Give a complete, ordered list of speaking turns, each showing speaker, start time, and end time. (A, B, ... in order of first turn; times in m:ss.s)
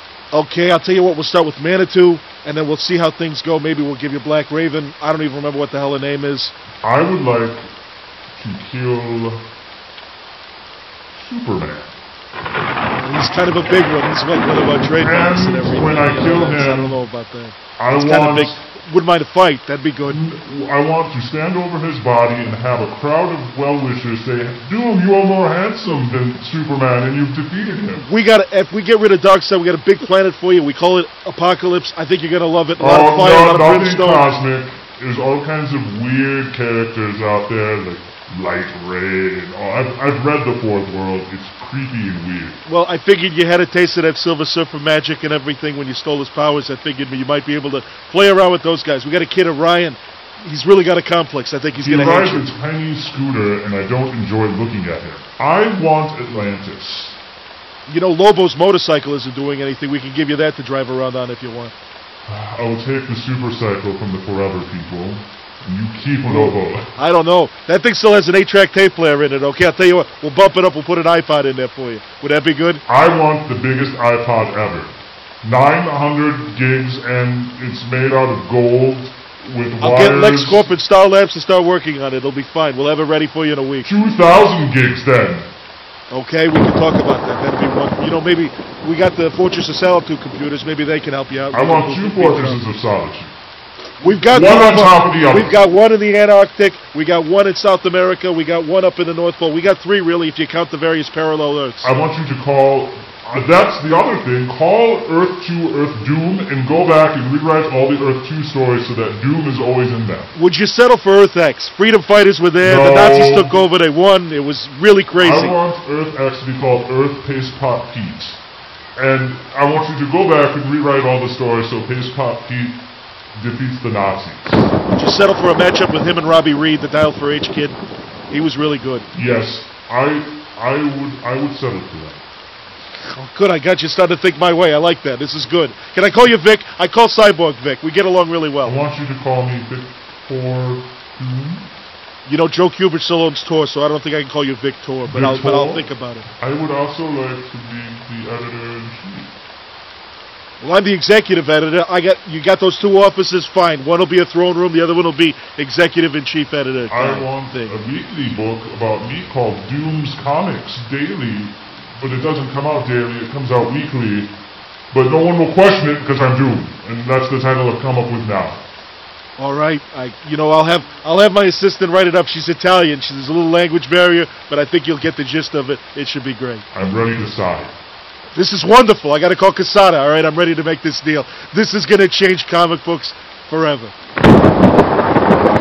0:00.3-0:06.6 A
0:06.8-0:07.7 B
0:08.3-0:09.4 B
0:11.1-0:11.9 B
0:13.0-0:20.2 A
0:15.0-0:17.0 B
0:17.8-0:18.6 B
0:20.0-0:28.0 B
0:28.0-0:34.4 A
0:32.8-0:42.6 B
0:42.7-0:52.5 A
0:51.8-0:57.2 B
0:57.9-1:01.7 A
1:02.3-1:06.9 B
1:06.3-1:12.8 A
1:12.9-1:20.7 B
1:19.8-1:23.9 A
1:23.8-1:25.5 B
1:26.1-1:32.6 A
1:31.5-1:33.3 B
1:34.0-1:41.9 A
1:34.2-1:35.6 B
1:41.8-1:50.3 B
1:50.4-1:55.6 A
1:52.6-1:53.6 B
1:55.2-1:58.4 B
1:59.0-2:02.8 B
2:03.3-2:04.7 B
2:04.9-2:07.8 A
2:08.3-2:09.1 A
2:09.1-2:12.2 B
2:13.2-2:18.8 A
2:18.6-2:21.6 B
2:22.3-2:26.3 A
2:25.1-2:29.3 B
2:30.6-2:37.8 A
2:36.9-2:44.4 B
2:44.9-2:48.6 B
2:49.4-2:56.7 A
2:56.7-2:57.7 B
2:58.4-3:03.9 A